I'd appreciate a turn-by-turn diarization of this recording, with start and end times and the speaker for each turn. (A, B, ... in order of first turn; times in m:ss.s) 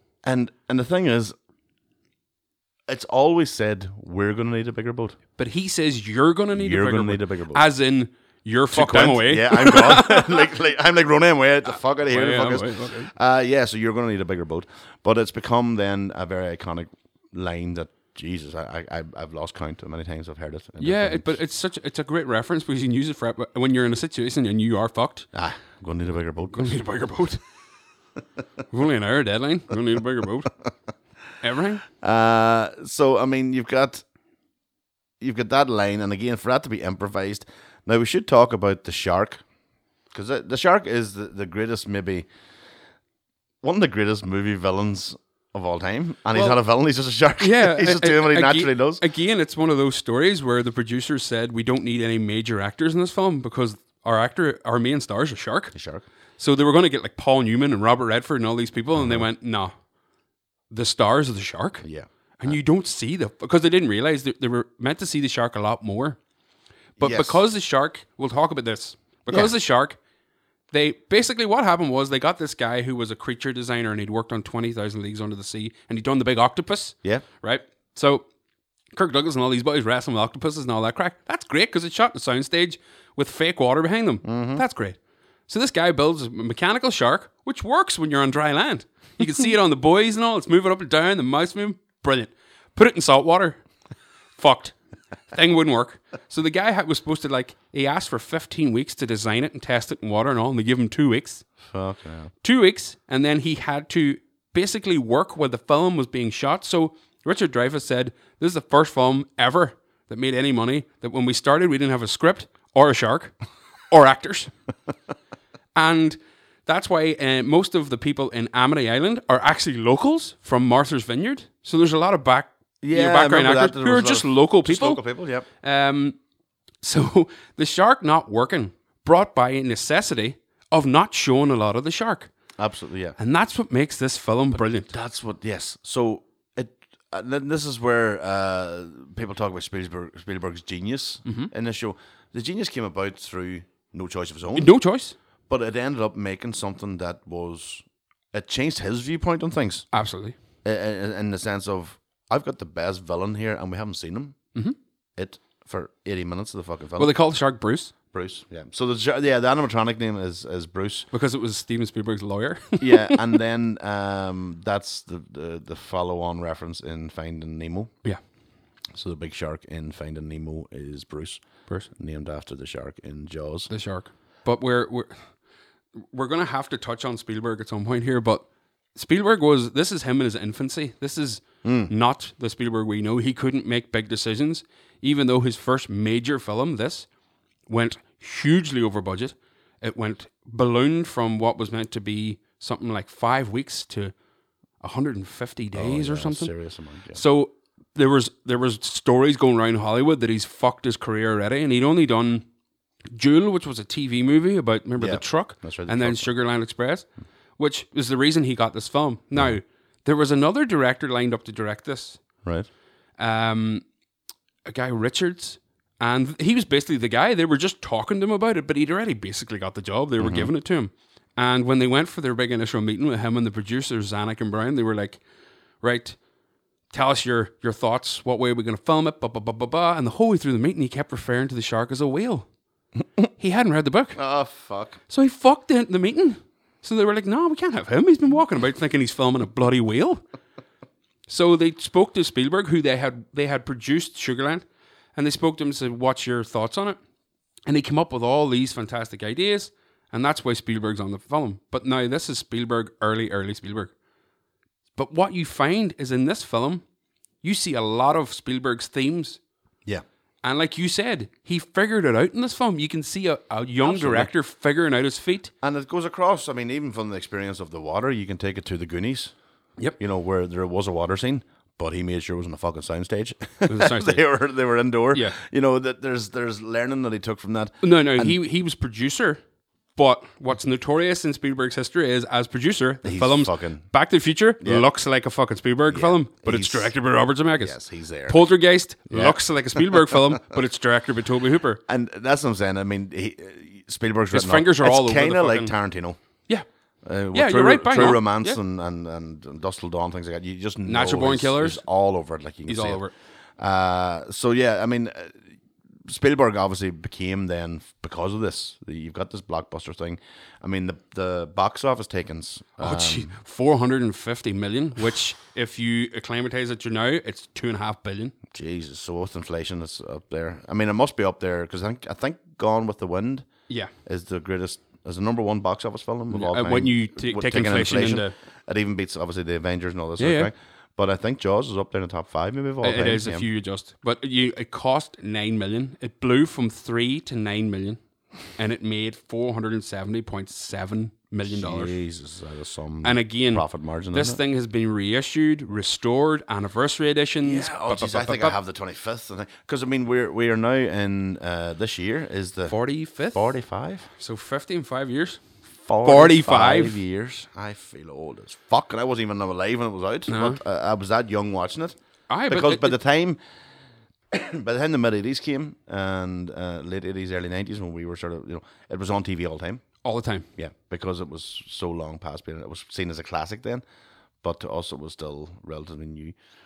0:00.2-0:01.3 A
0:02.9-0:05.2 A
0:05.4-0:10.5 B
0:06.5-0:07.7 A
0:08.7-0:21.4 A
0:11.7-0:13.1 B
0:20.8-0:25.3 B
0:25.3-0:26.8 A
0:26.5-0:27.4 B
0:28.7-0:30.5 B
0:31.4-0:31.8 B
0:32.0-0:34.0 A
0:35.2-0:39.4 A
0:40.1-0:42.3 A
0:43.6-0:49.0 A
0:46.3-0:46.6 B
0:47.4-0:55.7 B
0:55.7-0:56.0 A
0:56.4-0:59.7 B
0:59.0-0:59.3 A
1:00.7-1:01.8 B
1:01.8-1:02.6 A
1:02.4-1:06.2 B
1:07.0-1:07.4 A
1:07.0-1:10.0 B
1:10.7-1:18.2 B
1:18.9-1:25.0 B
1:24.2-1:24.6 A
1:25.5-1:33.6 B
1:34.4-1:34.8 B
1:35.3-1:41.4 B
1:41.6-1:42.3 A
1:42.4-1:53.3 B
1:53.9-1:54.5 B
1:55.7-2:05.0 B
2:02.8-2:05.5 A
2:05.6-2:06.2 B
2:06.8-2:12.3 B
2:12.6-2:13.2 A
2:13.2-2:14.9 B
2:14.9-2:24.7 A
2:21.2-2:21.5 B
2:24.5-2:25.1 B
2:25.5-2:29.9 A
2:29.9-2:30.4 B
2:30.6-2:34.4 A
2:35.2-2:37.2 A
2:37.0-2:37.9 B
2:38.1-2:41.1 A
2:41.1-2:43.4 B
2:42.8-2:47.9 A
2:48.9-2:53.7 A
2:53.7-2:55.3 B
2:56.0-3:07.1 B
3:01.6-3:01.9 A
3:07.7-3:14.1 B
3:14.8-3:16.5 B
3:15.7-3:17.2 A
3:17.1-3:22.4 B
3:23.1-3:32.2 B
3:25.0-3:26.3 A
3:33.2-3:33.8 B
3:34.6-3:45.2 B
3:40.2-3:40.5 A
3:45.8-3:46.2 B
3:46.9-3:52.5 B
3:53.4-3:54.2 B
3:54.1-3:55.0 A
3:55.1-4:00.2 B
4:01.3-4:07.0 B
4:07.6-4:13.9 B
4:15.0-4:16.8 B
4:17.4-4:19.4 B
4:20.4-4:25.5 B
4:23.8-4:24.3 A
4:25.6-4:29.3 A
4:30.0-4:38.4 A
4:33.6-4:34.2 B
4:35.1-4:35.4 B
4:37.8-4:39.4 B
4:40.0-4:51.8 B
4:43.0-4:43.9 A
4:44.6-4:44.8 A
4:45.9-4:46.9 A
4:47.6-4:48.5 A
4:49.1-4:50.2 A
4:51.9-4:56.2 A
4:54.3-4:55.7 B
4:57.0-5:03.0 A
4:57.3-4:58.6 B
5:00.8-5:01.8 B
5:02.7-5:03.1 B
5:03.6-5:05.4 A
5:06.0-5:13.3 A
5:12.8-5:18.3 B
5:18.5-5:23.5 A
5:24.0-5:33.5 A
5:26.3-5:28.3 B
5:30.2-5:30.5 B
5:32.8-5:38.0 B
5:38.5-5:42.0 B
5:41.4-5:44.4 A
5:43.0-5:48.6 B
5:47.4-5:52.8 A
5:52.7-5:53.5 B
5:53.3-5:54.1 A
5:54.2-5:55.4 B
5:55.8-6:02.0 A
5:56.0-5:57.0 B
6:00.3-6:00.6 B
6:02.3-6:03.0 B
6:02.5-6:03.4 A
6:04.3-6:09.8 A
6:10.0-6:10.5 B
6:10.6-6:13.8 A
6:14.4-6:16.4 A